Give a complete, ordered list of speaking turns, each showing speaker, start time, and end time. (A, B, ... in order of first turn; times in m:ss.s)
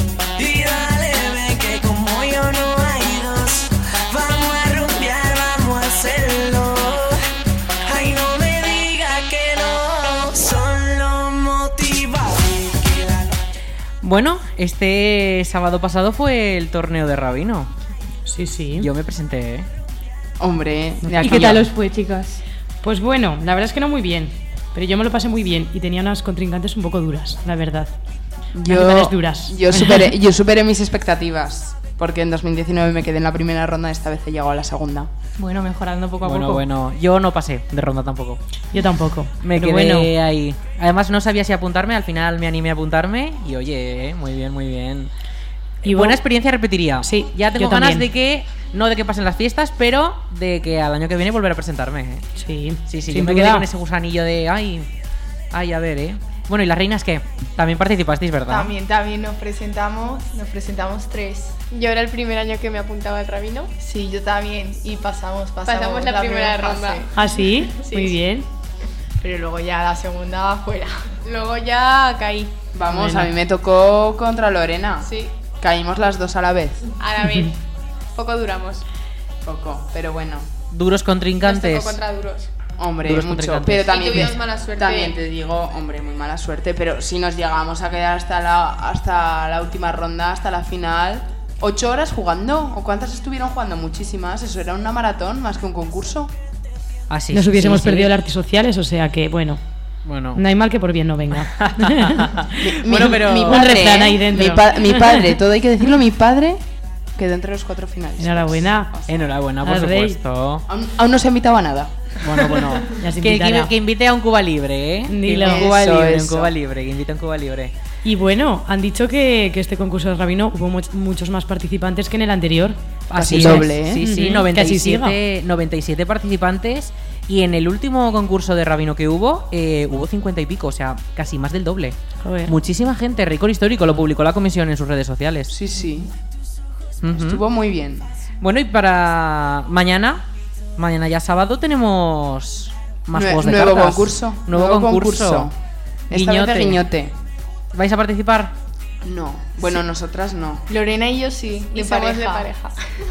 0:00.4-0:07.2 A
0:07.8-0:13.4 A
0:14.0-0:17.7 B
0:18.2-0:18.9 C
0:18.8-0:19.7 B
0:20.4-0:21.7 D
0:21.0-0:21.5 C
0:21.2-0:21.6 B
0:21.2-0:22.4 E
0:22.8-0:27.9 C
0:28.5-0:35.1 D
0:28.7-0:30.1 C
0:35.4-0:36.6 E
0:36.2-0:38.4 B
0:38.7-0:40.1 C
0:39.4-0:45.1 B
0:45.8-0:52.2 B
0:45.8-0:46.2 C
0:47.0-0:48.0 C
0:52.4-0:53.6 C
0:52.9-0:54.9 B
0:55.5-0:58.7 B
0:58.5-1:01.6 F
1:01.7-1:03.7 G
1:03.8-1:07.1 F
1:05.6-1:07.1 G
1:07.1-1:08.5 C
1:07.8-1:08.2 G
1:09.2-1:11.1 F
1:11.2-1:12.6 G
1:12.7-1:16.9 D
1:12.9-1:13.2 C
1:15.0-1:15.4 G
1:17.0-1:17.6 G
1:17.2-1:17.5 C
1:18.1-1:18.8 G
1:19.4-1:20.5 D
1:20.7-1:22.0 B
1:21.4-1:22.5 G
1:22.8-1:36.3 D
1:23.0-1:24.3 B
1:23.9-1:25.2 G
1:37.1-1:38.1 B
1:37.3-1:39.6 C
1:40.0-1:40.4 B
1:40.3-1:42.3 C
1:41.6-1:43.8 B
1:42.6-1:46.6 D
1:43.4-1:45.3 C
1:47.2-1:49.2 D
1:48.2-1:48.9 C
1:49.1-1:50.6 B
1:49.6-1:50.2 C
1:50.7-1:51.9 D
1:52.2-1:57.7 B
1:53.0-1:53.7 C
1:55.1-1:55.7 C
1:55.4-1:56.5 D
1:58.0-2:02.8 C
2:03.1-2:15.5 B
2:03.1-2:04.1 D
2:03.3-2:05.2 C
2:12.2-2:12.5 C
2:15.5-2:16.1 D
2:17.0-2:17.4 B
2:17.1-2:18.1 D
2:18.4-2:20.2 B
2:20.8-2:25.5 B
2:23.1-2:25.5 D
2:26.1-2:27.1 D
2:26.1-2:26.8 B
2:27.7-2:28.5 B
2:29.0-2:30.6 D
2:30.7-2:32.5 F
2:30.7-2:32.7 G